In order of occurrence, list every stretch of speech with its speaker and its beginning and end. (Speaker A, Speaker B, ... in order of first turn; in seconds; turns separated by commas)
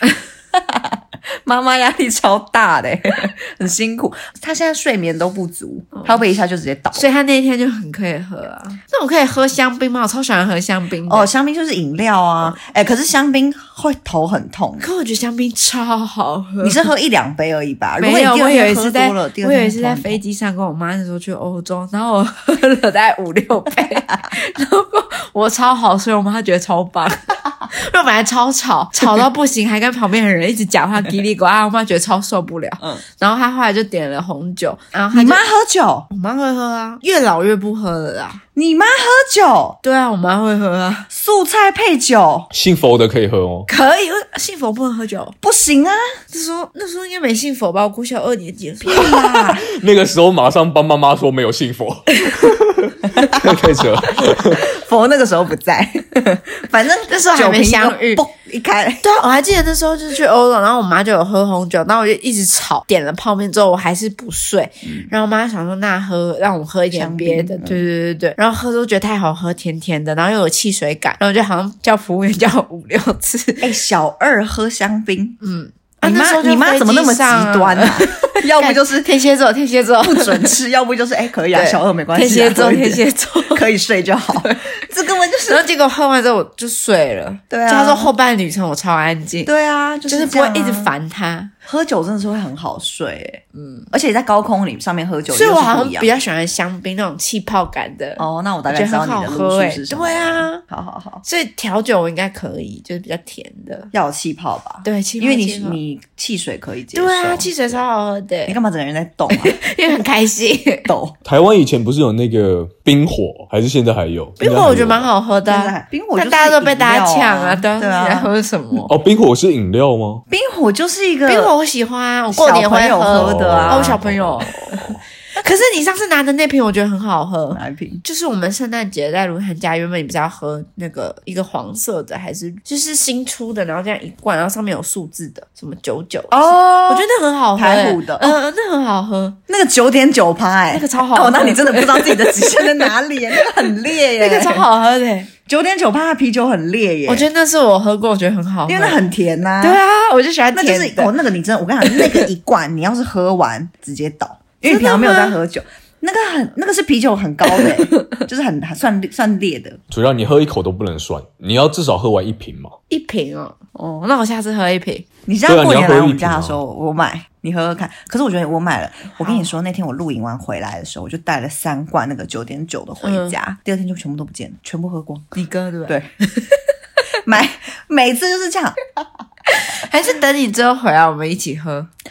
Speaker A: 0.5-7.0, Speaker B: 5.9-6.2, Speaker B: 6.9-11.3, Speaker A: 11.1-14.9, Speaker B: 14.8-16.9, Speaker A: 16.6-20.2, Speaker B: 18.0-35.4, Speaker A: 35.1-36.1, Speaker B: 36.1-38.4, Speaker A: 38.5-39.8, Speaker B: 39.8-41.1, Speaker A: 41.1-42.5, Speaker C: 42.5-43.7, Speaker B: 43.7-45.4, Speaker A: 45.4-46.0, Speaker B: 46.3-49.3, Speaker A: 48.8-49.6, Speaker C: 49.0-54.7, Speaker A: 53.1-53.6, Speaker A: 54.3-59.0, Speaker B: 57.1-58.2, Speaker B: 59.0-73.7, Speaker A: 64.8-65.1, Speaker A: 66.9-67.8, Speaker A: 73.6-75.4, Speaker B: 75.4-80.5, Speaker A: 76.0-79.2, Speaker A: 80.0-85.6, Speaker B: 81.5-83.7, Speaker B: 84.4-84.7, Speaker B: 85.5-89.5, Speaker A: 87.5-88.1, Speaker A: 89.4-90.9, Speaker B: 90.1-91.5, Speaker A: 91.6-96.1, Speaker B: 93.5-93.9, Speaker B: 95.3-100.6, Speaker A: 98.2-101.2, Speaker B: 101.2-103.9, Speaker A: 103.9-107.8, Speaker B: 104.8-105.8, Speaker B: 106.9-108.6, Speaker A: 108.5-109.6, Speaker B: 109.3-110.9, Speaker A: 110.9-111.2, Speaker C: 111.2-115.1, Speaker B: 114.4-118.9, Speaker A: 115.5-118.3, Speaker C: 118.9-120.2, Speaker A: 120.3-121.5, Speaker B: 121.3-139.4, Speaker A: 122.3-125.0, Speaker C: 123.1-124.5, Speaker A: 127.5-128.0, Speaker A: 136.3-138.3, Speaker A: 139.5-144.7, Speaker B: 140.7-142.9, Speaker B: 144.1-145.3, Speaker A: 145.5-147.3, Speaker B: 147.1-149.0, Speaker A: 148.7-149.8, Speaker B: 149.6-151.1, Speaker A: 150.5-159.8, Speaker B: 151.8-152.3, Speaker B: 154.7-155.4, Speaker B: 157.4-158.2, Speaker C: 159.9-162.8, Speaker B: 162.9-165.1, Speaker A: 165.3-175.3, Speaker C: 165.5-166.6, Speaker B: 169.2-169.5, Speaker B: 173.0-173.3, Speaker B: 175.3-176.6, Speaker A: 177.2-178.8, Speaker B: 179.5-181.9